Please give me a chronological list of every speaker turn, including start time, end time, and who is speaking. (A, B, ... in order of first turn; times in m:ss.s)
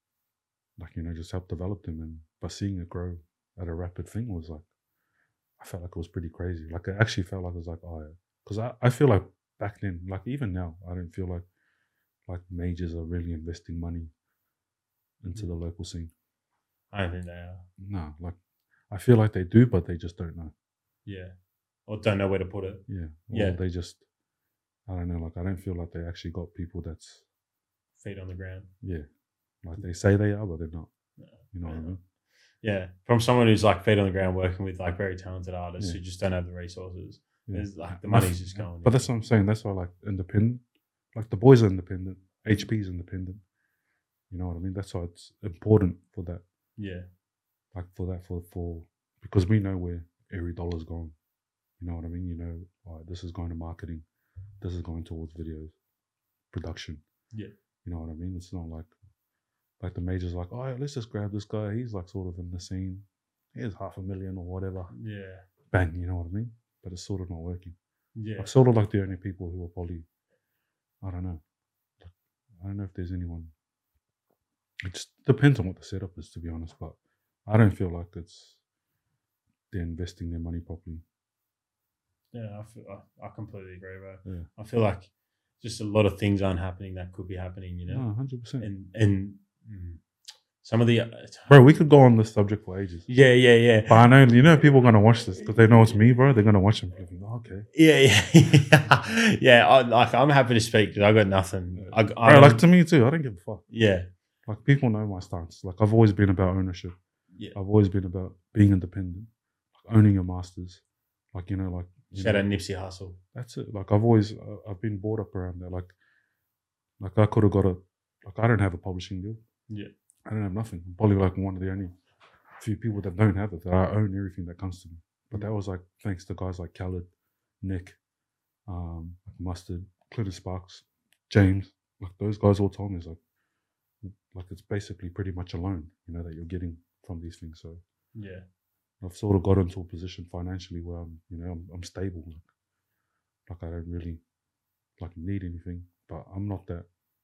0:00.8-0:04.6 A
0:05.6-0:11.5 A
0:12.3-0:14.1 A
0:15.2-0:16.1 A
0:16.9-0:17.6 B
0:17.8-0:18.4 A
0:18.9-0:20.5 A
0:21.1-0:21.3 B
0:21.9-0:23.6 B
0:22.9-0:24.0 A
0:24.9-0:27.2 A
0:28.0-0:28.7 B
0:29.6-0:30.9 A
0:31.2-0:32.0 B
0:31.5-0:32.0 A
0:32.6-0:39.1 B
0:37.5-0:40.6 A
0:41.1-0:43.4 A
0:44.3-0:46.4 A
0:46.8-0:47.1 B
0:47.7-0:51.2 A
0:51.8-0:54.0 A
0:54.6-0:55.8 A
0:56.5-0:57.0 A
0:57.8-0:58.9 A
0:59.8-1:04.9 A
1:04.9-1:05.4 B
1:05.7-1:07.8 A
1:08.2-1:08.5 B
1:08.4-1:10.1 A
1:11.0-1:11.4 A
1:12.0-1:13.5 A
1:14.8-1:18.6 A
1:19.7-1:21.0 A
1:22.3-1:25.1 B
1:25.6-1:28.0 B
1:27.9-1:28.7 A
1:28.6-1:30.0 B
1:30.6-1:31.6 B
1:31.5-1:33.1 A
1:33.1-1:34.1 B
1:33.9-1:37.7 A
1:37.7-1:42.6 B
1:41.8-1:43.6 A
1:43.7-1:44.1 B
1:44.5-1:47.0 A
1:47.6-1:52.5 A
1:52.1-1:53.2 B
1:53.4-1:55.9 A
1:57.0-1:59.4 A
2:00.3-2:01.9 A
2:02.6-2:07.1 A
2:07.6-2:08.0 A
2:08.7-2:13.2 A
2:14.1-2:17.8 A
2:18.2-2:18.4 B
2:19.0-2:22.5 A
2:23.5-2:24.2 A
2:25.0-2:26.9 A